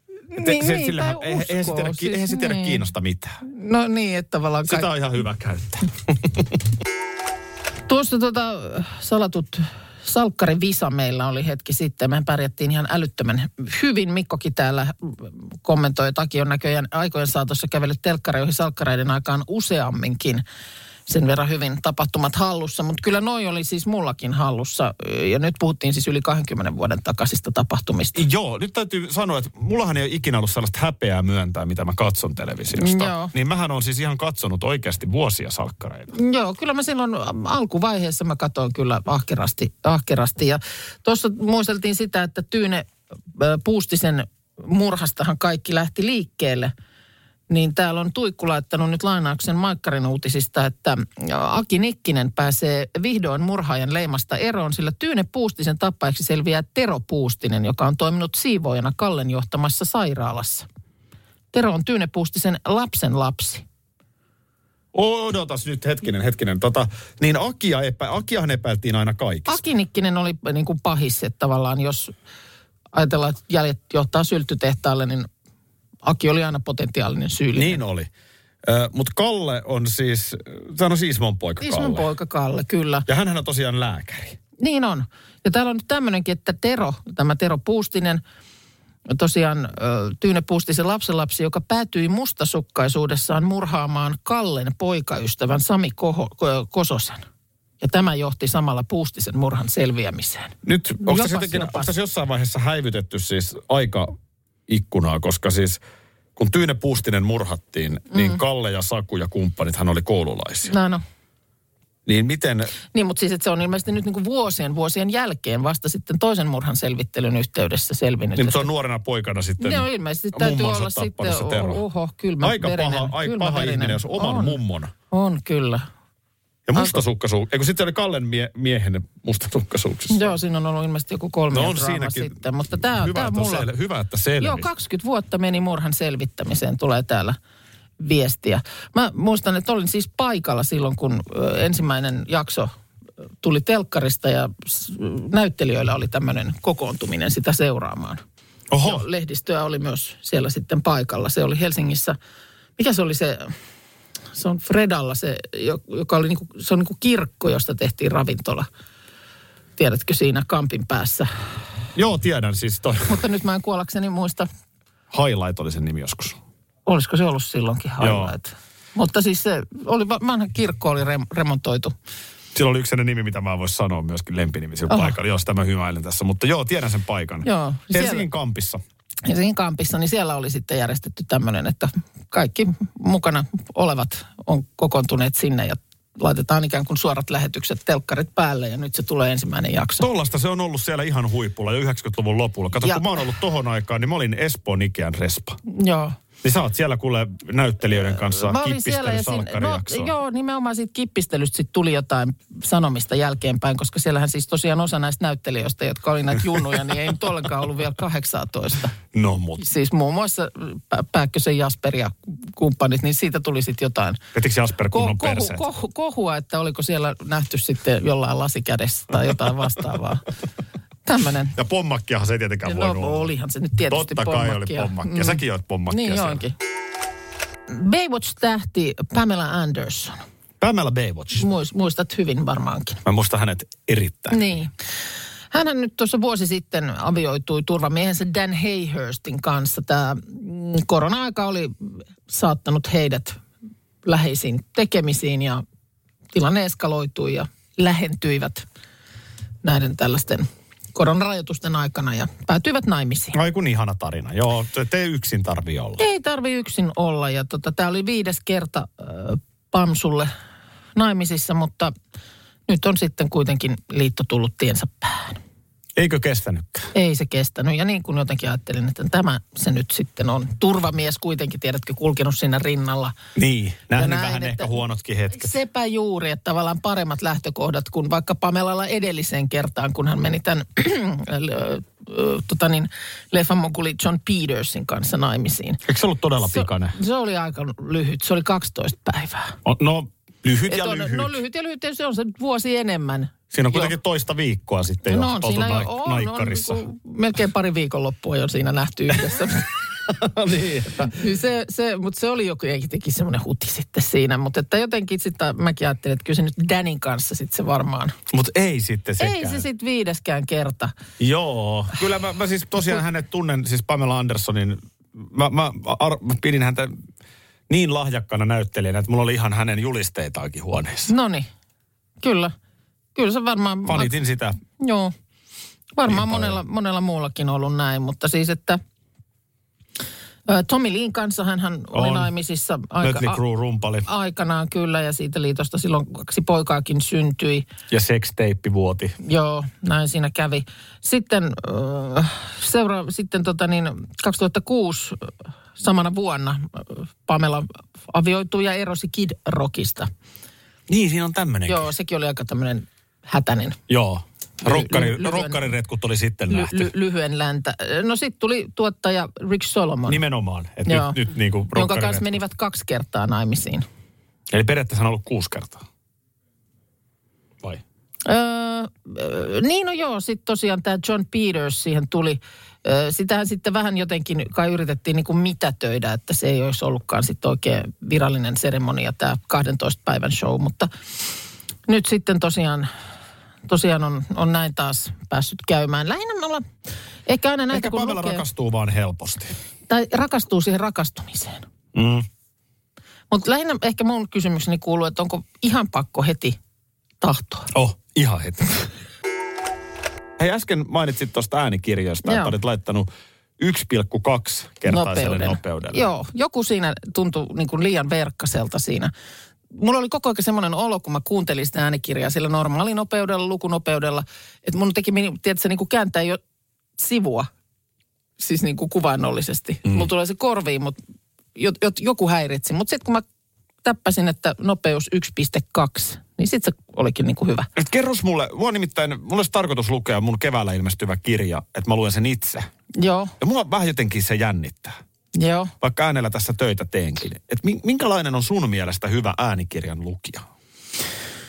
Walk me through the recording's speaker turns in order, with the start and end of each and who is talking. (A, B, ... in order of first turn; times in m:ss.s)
0:00.3-0:02.8 A
0:00.4-0:03.4 B
0:03.4-0:04.9 A
0:04.7-0:06.6 B
0:07.9-0:20.4 A
0:21.1-0:28.2 A
0:28.2-0:36.1 B
0:32.8-0:33.3 A
0:36.2-0:46.7 A
0:47.5-1:00.7 A
1:01.5-1:03.6 A
1:04.9-1:09.6 B
1:09.5-1:12.1 A
1:12.9-1:15.3 A
1:16.0-1:17.8 A
1:17.6-1:18.1 B
1:18.6-1:22.1 B
1:21.6-1:23.0 A
1:23.1-1:24.4 B
1:24.6-1:28.2 A
1:29.1-1:37.2 A
1:37.8-1:41.9 A
1:40.6-1:44.2 B
1:44.7-1:45.8 B
1:46.4-1:50.8 B
1:48.1-1:48.4 A
1:50.7-1:51.0 A
1:52.1-1:52.7 B
1:52.9-1:58.7 A
1:58.4-2:01.8 B
1:59.6-2:04.6 A
2:02.4-2:04.9 B
2:05.1-2:05.9 A
2:06.7-2:10.4 B
2:06.8-2:07.0 A
2:10.1-2:13.7 A
2:11.5-2:14.7 B
2:14.4-2:17.4 A
2:18.0-2:22.7 A
2:23.4-2:28.2 A
2:28.7-2:29.1 B
2:28.8-2:32.2 A
2:32.8-2:33.5 A
2:34.4-2:38.7 A
2:39.8-2:41.3 A
2:42.0-2:43.1 B
2:43.1-2:44.5 A
2:45.1-2:46.4 B
2:46.9-2:51.9 A
2:48.0-2:48.4 B
2:52.5-2:58.8 B
2:54.9-2:55.1 A
2:57.4-2:58.3 A
2:59.2-3:10.1 A
3:10.0-3:15.6 B
3:15.7-3:16.2 A
3:16.4-3:20.1 B
3:18.2-3:28.9 A
3:29.1-3:29.7 B
3:29.6-3:34.2 A
3:34.3-3:35.7 B
3:34.9-3:40.2 A
3:41.1-3:41.6 A
3:41.5-3:43.3 B
3:42.6-3:46.5 A
3:43.9-3:46.4 B
3:47.7-3:50.2 A
3:50.6-3:51.5 B
3:51.4-3:53.0 A
3:53.0-3:54.6 B
3:54.3-3:54.7 A
3:55.5-4:03.4 A
4:04.0-4:05.6 A
4:06.3-4:08.6 A
4:09.6-4:13.4 A
4:13.3-4:16.0 B
4:16.0-4:20.3 A
4:21.0-4:21.9 A
4:22.7-4:25.4 A
4:26.0-4:26.9 B
4:26.9-4:33.1 A
4:33.4-4:35.5 B
4:34.0-4:34.8 A
4:35.3-4:45.8 A
4:45.8-4:47.0 B
4:46.4-4:49.6 A
4:49.6-4:51.4 B
4:50.7-4:53.9 A
4:53.5-4:56.8 B
4:55.1-4:59.7 A
4:59.3-4:59.5 B
5:00.1-5:01.2 B
5:01.2-5:08.2 A
5:08.3-5:09.6 B
5:09.2-5:10.9 A
5:11.2-5:17.0 B
5:17.7-5:21.1 B
5:21.1-5:21.5 A
5:22.2-5:22.5 A
5:23.2-5:24.1 A
5:23.9-5:24.6 B
5:24.8-5:25.1 A
5:26.0-5:28.8 A
5:26.1-5:26.6 B
5:30.5-5:33.4 A
5:31.9-5:32.3 B
5:33.0-5:34.1 B
5:34.1-5:37.7 A
5:37.9-5:39.2 B
5:39.2-5:50.1 A
5:50.9-5:51.9 B
5:51.7-5:53.8 A
5:53.9-5:56.9 B
5:54.6-5:55.6 A
5:56.5-6:00.2 A
6:00.1-6:02.3 B
6:00.9-6:03.8 A
6:04.5-6:05.8 B
6:08.3-6:20.9 A
6:21.9-6:22.9 A
6:23.7-6:26.6 A
6:27.3-6:28.4 A
6:27.7-6:29.6 B
6:29.9-6:31.7 A
6:31.9-6:32.3 B
6:33.3-6:36.6 A
6:37.2-6:37.7 A
6:37.7-6:38.9 B
6:40.4-6:46.1 B
6:42.2-6:42.5 A
6:44.9-6:49.1 A
6:49.8-6:56.4 A
6:57.0-6:57.5 A
6:58.4-7:01.0 A
7:01.6-7:03.2 A
7:03.8-7:07.7 A
7:07.8-7:12.7 B
7:13.0-7:13.4 A
7:13.4-7:15.0 B
7:15.4-7:15.7 A
7:15.8-7:20.4 B